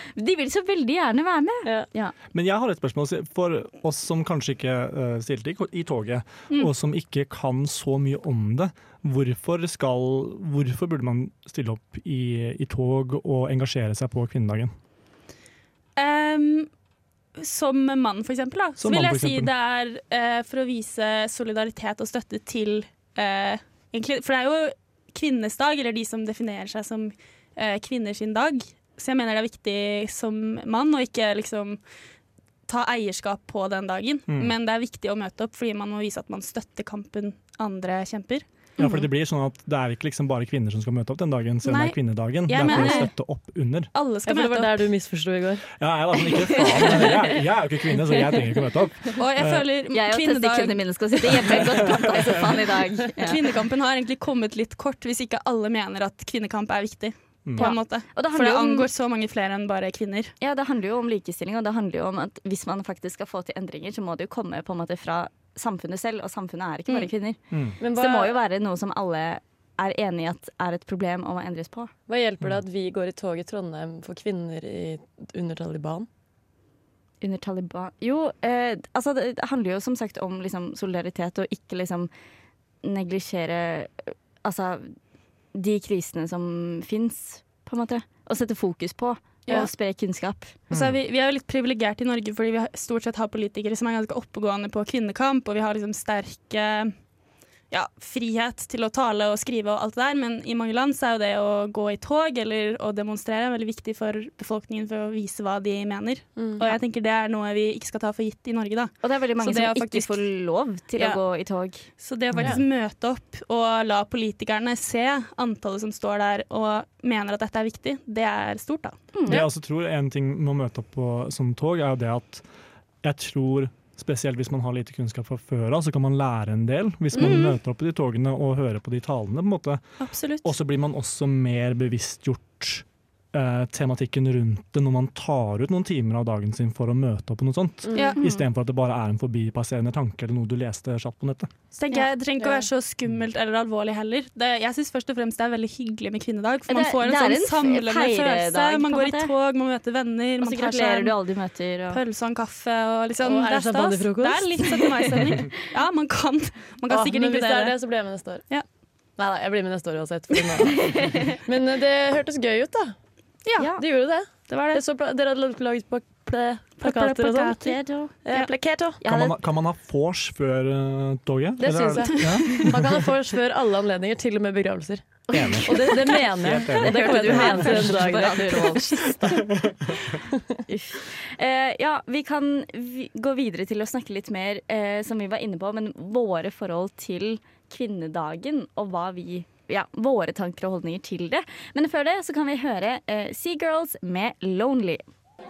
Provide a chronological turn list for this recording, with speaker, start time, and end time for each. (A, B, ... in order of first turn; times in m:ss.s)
0:00.2-0:02.2 A
0:02.3-0:14.7 B
0:16.0-0:16.7 C
0:17.4-0:31.9 C
0:18.8-0:19.5 B
0:32.7-0:38.9 C
0:34.3-0:34.5 B
0:38.8-0:43.9 B
0:41.6-0:44.9 C
0:42.7-0:43.0 A
0:44.3-0:45.7 D
0:45.8-0:49.6 B
0:46.4-0:47.4 A
0:48.1-0:48.4 A
0:49.2-0:51.6 C
0:49.9-0:53.4 A
0:52.2-0:52.5 B
0:53.2-1:00.3 C
0:57.5-0:57.7 B
0:57.6-0:58.9 A
1:00.4-1:11.9 A
1:07.5-1:07.8 B
1:07.8-1:08.4 D
1:12.1-1:16.1 D
1:17.2-1:22.1 A
1:22.8-1:25.0 A
1:25.5-1:30.5 A
1:30.7-1:31.0 B
1:30.7-1:37.2 C
1:37.7-1:50.3 C
1:46.4-1:46.6 D
1:49.0-1:51.8 A
1:51.0-1:51.2 C
1:51.8-1:59.5 C
1:52.3-1:52.6 B
1:52.4-1:52.6 D
1:59.2-1:59.4 A
1:59.3-2:02.5 B
2:03.0-2:21.5 B
2:07.2-2:07.6 C
2:10.0-2:10.5 C
2:17.8-2:18.2 D
2:18.0-2:18.2 C
2:18.2-2:18.4 A
2:21.7-2:31.2 C
2:21.9-2:22.6 A
2:26.7-2:29.3 A
2:30.4-2:32.0 A
2:31.9-2:37.8 C
2:33.2-2:34.6 D
2:36.9-2:38.5 D
2:39.2-2:43.0 D
2:43.5-2:43.7 C
2:43.8-2:49.0 D
2:44.5-2:44.8 C
2:46.8-2:48.5 C
2:49.0-2:49.3 A
2:49.0-2:53.0 B
2:51.6-2:59.6 D
2:52.2-2:52.5 C
2:55.3-2:59.2 A
2:55.3-2:57.8 B
3:00.7-3:15.0 A